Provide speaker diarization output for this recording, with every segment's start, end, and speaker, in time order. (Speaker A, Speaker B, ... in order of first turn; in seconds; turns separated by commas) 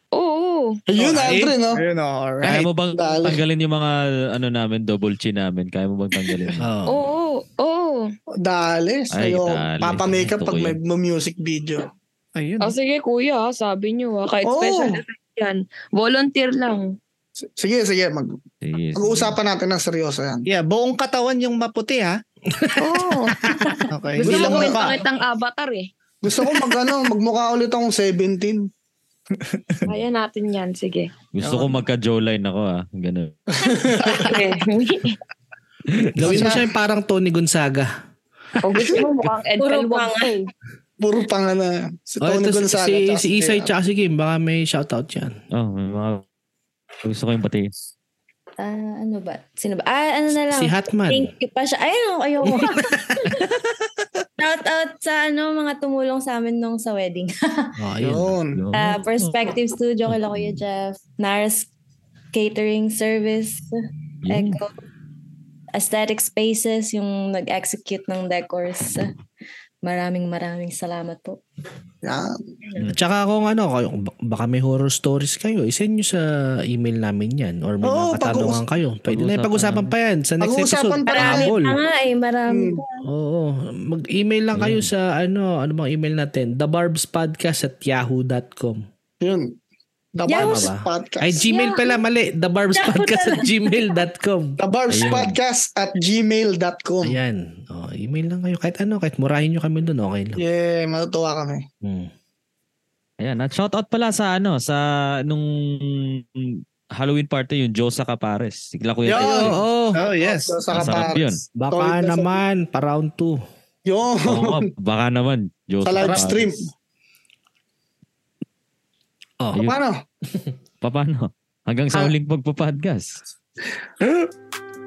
Speaker A: 0.1-0.8, Speaker B: 0.9-1.8, Speaker C: 1.0-2.7, Speaker D: 2.4-6.6, Speaker B: 2.9-3.4, Speaker E: 6.6-7.0, Speaker A: 6.9-8.1, Speaker B: 8.4-11.9, Speaker D: 9.1-10.8, Speaker C: 12.4-12.8, Speaker A: 12.6-16.9, Speaker B: 14.4-15.0, Speaker B: 17.4-18.4, Speaker D: 18.6-19.4, Speaker B: 18.9-20.5, Speaker C: 20.5-22.2, Speaker E: 22.5-22.9, Speaker B: 22.8-23.5, Speaker C: 23.9-25.0, Speaker A: 24.2-25.9, Speaker B: 24.2-25.0, Speaker B: 26.2-28.7, Speaker A: 29.9-31.1, Speaker D: 31.3-33.3, Speaker C: 31.4-31.8, Speaker B: 33.6-34.4, Speaker A: 34.1-35.2, Speaker D: 35.9-36.4, Speaker E: 36.1-37.9, Speaker B: 36.2-36.7, Speaker A: 38.6-40.4, Speaker F: 39.6-40.5, Speaker B: 41.0-43.7, Speaker E: 42.2-45.4, Speaker D: 45.5-46.2, Speaker D: 47.0-47.7, Speaker F: 48.6-53.5, Speaker E: 50.5-51.3, Speaker E: 52.4-53.4, Speaker F: 54.4-57.8, Speaker E: 57.8-58.4, Speaker B: 58.0-58.6, Speaker D: 58.5-59.5, Speaker F: 58.7-61.7, Speaker F: 62.3-63.7, Speaker D: 64.2-64.6, Speaker F: 64.3-64.7, Speaker F: 65.7-69.1, Speaker F: 69.8-71.4, Speaker B: 72.0-72.3, Speaker E: 72.9-81.8, Speaker B: 77.8-78.6, Speaker D: 79.1-79.9, Speaker B: 80.4-81.5, Speaker F: 81.1-83.0, Speaker B: 82.5-82.8, Speaker E: 83.0-88.8, Speaker D: 84.5-84.9, Speaker B: 89.2-89.5, Speaker B: 90.2-91.4, Speaker F: 90.3-90.7, Speaker E: 90.4-95.2, Speaker F: 91.5-92.0, Speaker F: 92.7-94.0, Speaker B: 94.6-97.2, Speaker D: 94.9-95.3, Speaker E: 97.0-100.4, Speaker B: 100.4-101.6, Speaker E: 101.8-102.1, Speaker D: 103.2-109.6, Speaker B: 109.1-109.5, Speaker E: 109.2-110.0, Speaker C: 109.9-110.6, Speaker B: 110.2-112.4, Speaker D: 110.7-111.4, Speaker E: 111.6-113.4, Speaker B: 113.9-114.7, Speaker D: 114.2-116.6, Speaker B: 115.9-116.7, Speaker B: 119.6-120.0, Speaker D: 120.8-123.2, Speaker B: 124.0-124.3